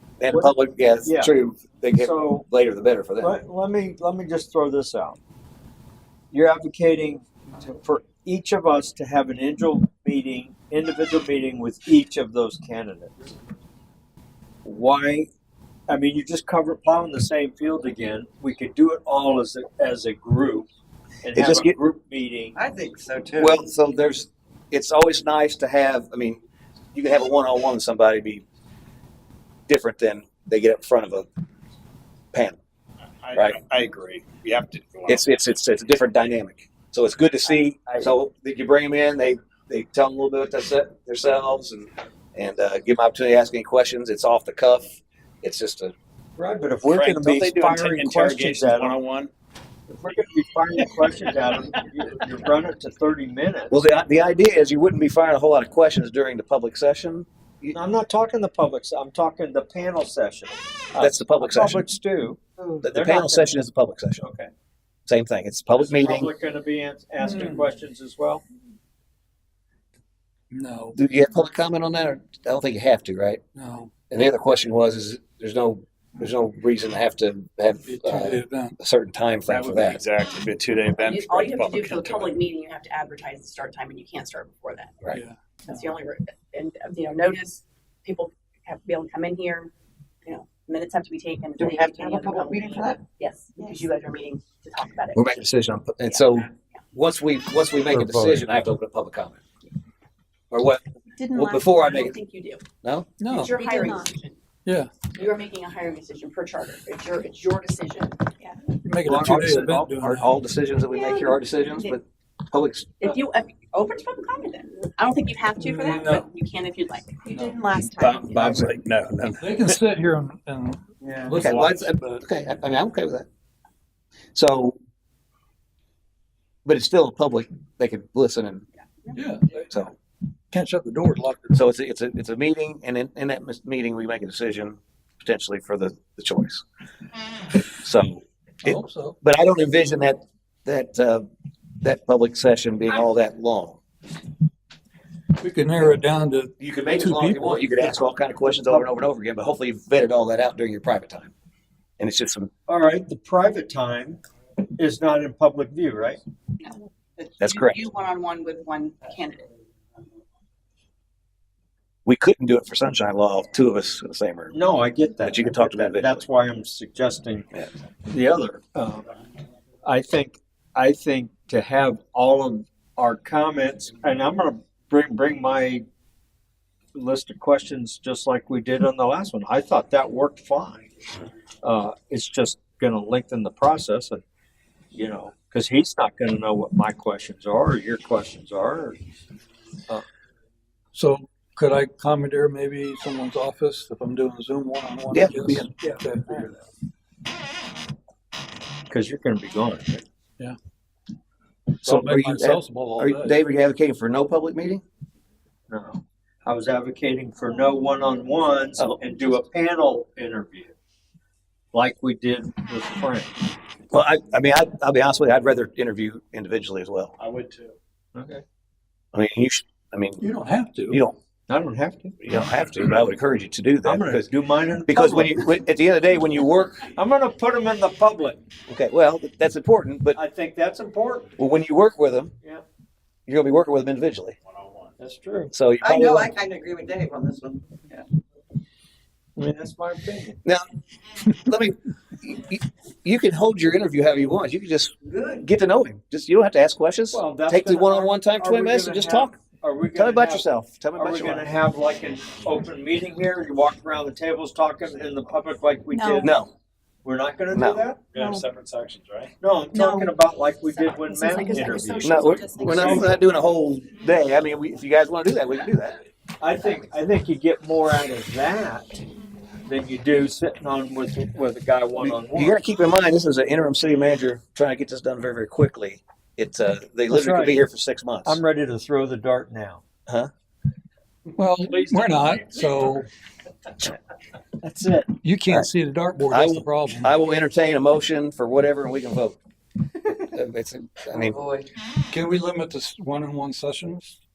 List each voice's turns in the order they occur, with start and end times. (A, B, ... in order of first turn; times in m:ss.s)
0:00.2-0:03.3 A
0:00.3-0:01.3 B
0:02.0-0:02.4 B
0:03.2-0:05.2 B
0:06.3-0:13.1 B
0:14.6-0:15.3 B
0:15.9-0:20.7 B
0:21.2-0:22.6 B
0:21.3-0:21.8 A
0:22.5-0:23.6 C
0:23.4-0:26.4 A
0:26.9-0:28.4 A
0:29.7-0:31.3 A
0:32.3-0:32.6 A
0:33.2-0:35.2 D
0:35.1-0:45.9 A
0:37.5-0:38.1 B
0:46.4-0:49.0 B
0:46.9-0:49.3 C
0:46.9-0:49.0 D
0:49.9-0:53.8 B
0:53.7-0:57.8 A
0:57.7-1:03.6 B
1:01.0-1:01.8 A
1:02.8-1:04.2 A
1:04.2-1:04.5 B
1:05.1-1:06.3 A
1:05.7-1:08.4 B
1:07.2-1:07.7 E
1:10.5-1:11.0 E
1:11.0-1:13.4 A
1:13.6-1:14.0 E
1:14.1-1:20.0 A
1:17.8-1:18.7 E
1:19.5-1:22.3 D
1:21.0-1:25.0 F
1:25.1-1:25.8 E
1:25.6-1:29.7 F
1:30.2-1:35.4 F
1:31.6-1:33.0 C
1:35.1-1:39.4 A
1:37.9-1:38.5 B
1:40.5-1:42.2 A
1:41.2-1:41.6 G
1:41.6-1:42.6 F
1:42.8-1:43.1 A
1:43.2-1:43.5 E
1:43.3-1:44.4 F
1:43.5-1:44.1 G
1:44.6-1:44.9 E
1:45.1-1:48.3 F
1:48.7-1:50.3 E
1:49.0-1:49.9 B
1:50.0-1:53.1 A
1:53.0-1:57.5 F
1:55.6-1:56.2 E
1:57.2-1:58.6 G
1:58.0-2:02.2 E
1:58.4-1:58.7 C
2:01.3-2:03.2 A
2:04.3-2:04.8 A
2:06.6-2:08.6 A
2:08.8-2:09.3 F
2:09.1-2:09.7 E
2:10.5-2:11.6 E
2:11.5-2:16.6 A
2:17.8-2:21.3 A
2:18.6-2:19.2 E
2:21.8-2:23.8 A
2:25.4-2:27.9 E
2:26.6-2:31.3 A
2:28.5-2:28.8 B
2:32.0-2:32.5 A
2:32.7-2:34.2 B
2:34.8-2:36.2 B
2:36.6-2:39.5 F
2:37.4-2:37.8 A
2:42.0-2:44.6 A
2:44.5-2:47.5 B
2:45.2-2:46.2 A
2:48.1-2:49.1 B
2:49.8-2:55.8 B
2:56.9-3:00.8 B
3:01.6-3:04.2 B
3:04.9-3:09.0 B
3:10.9-3:16.6 E
3:15.1-3:15.7 A
3:18.9-3:20.0 B
3:21.8-3:23.4 E
3:21.8-3:24.8 A
3:25.7-3:30.8 B
3:28.8-3:29.4 A
3:31.7-3:33.3 B
3:33.9-3:37.1 A
3:37.2-3:37.7 D
3:38.1-3:38.4 B
3:39.1-3:40.2 A
3:40.2-3:41.0 E
3:40.9-3:41.2 A
3:41.5-3:42.2 B
3:42.2-3:44.3 A
3:43.8-3:45.5 B
3:44.9-3:46.9 A
3:46.9-3:48.4 B
3:48.7-3:50.2 A
3:50.1-3:51.3 B
3:51.4-3:52.3 A
3:53.3-3:54.4 A
3:55.0-3:55.5 B
3:55.5-3:56.4 A
3:55.8-3:58.0 C
3:59.4-4:00.4 B
4:01.3-4:09.4 A
4:07.1-4:10.4 B
4:10.0-4:11.5 A
4:11.0-4:16.4 B
4:15.9-4:16.3 G
4:16.2-4:16.5 A
4:17.0-4:18.0 B
4:17.5-4:17.8 A
4:18.1-4:19.3 D
4:18.1-4:18.5 G
4:19.4-4:23.1 B
4:19.7-4:20.1 G
4:21.1-4:23.0 G
4:22.0-4:26.0 A
4:26.4-4:29.0 B
4:29.6-4:32.6 B
4:32.0-4:38.4 A
4:37.1-4:37.6 B
4:38.2-4:39.8 B
4:41.4-4:43.1 E
4:44.6-4:45.1 B
4:45.2-4:47.1 E
4:46.3-4:49.4 A
4:50.0-4:51.5 A
4:51.3-4:51.6 C
4:52.1-4:54.2 E